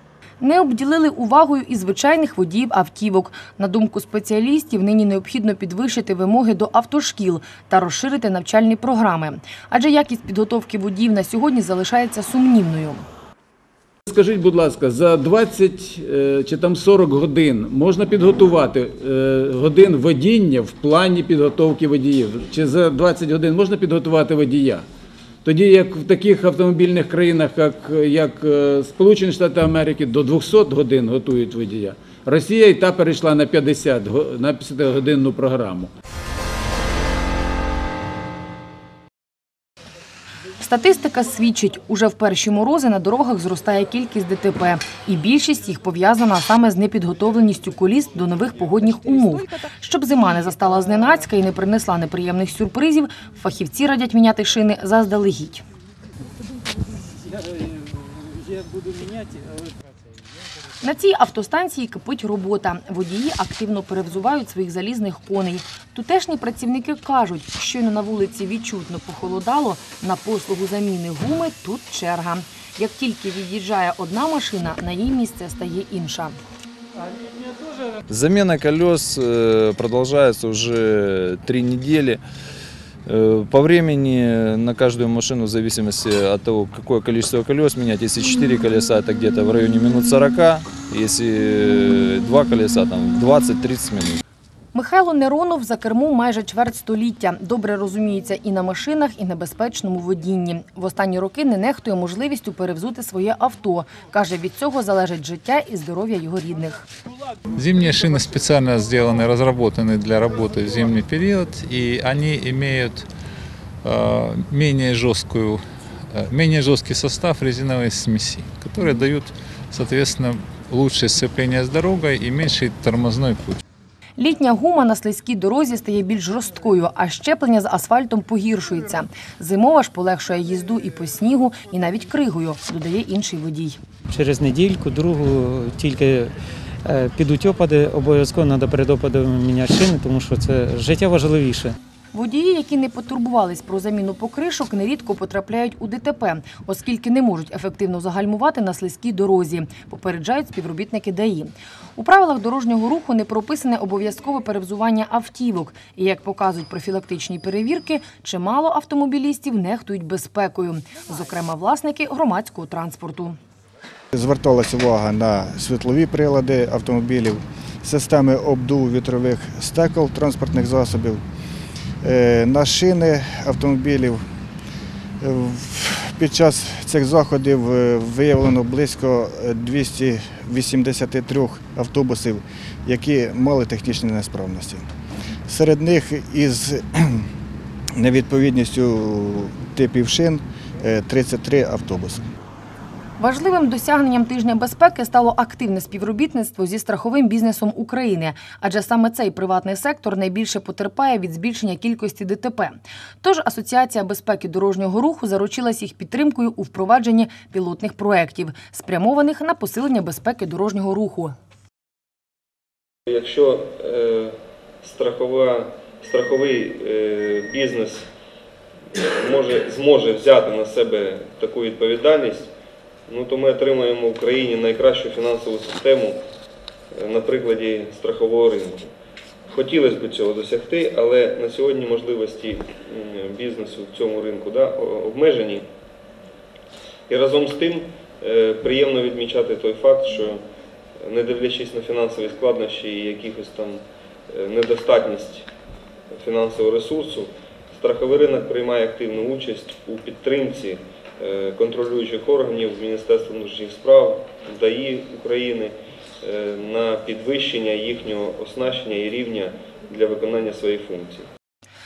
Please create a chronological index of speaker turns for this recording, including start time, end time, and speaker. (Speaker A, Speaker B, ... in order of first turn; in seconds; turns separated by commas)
Speaker A: 0.4-13.0, Speaker B: 14.1-24.9, Speaker B: 25.4-35.9, Speaker A: 40.6-55.6, Speaker A: 60.8-76.3, Speaker C: 78.1-82.2, Speaker C: 83.0-94.2, Speaker A: 94.7-106.8, Speaker D: 107.6-113.1, Speaker D: 113.8-115.6, Speaker D: 116.1-123.6, Speaker A: 124.2-133.8, Speaker E: 134.1-141.8, Speaker A: 142.1-163.4, Speaker F: 164.1-171.2, Speaker F: 172.0-174.2, Speaker F: 175.2-184.8, Speaker F: 185.5-187.2, Speaker F: 188.0-192.2, Speaker A: 193.2-211.3, Speaker G: 213.1-218.1, Speaker G: 218.9-222.5, Speaker G: 223.1-226.2, Speaker G: 226.9-228.9, Speaker G: 229.5-235.7, Speaker G: 237.1-240.4, Speaker G: 241.0-245.5, Speaker G: 246.1-261.3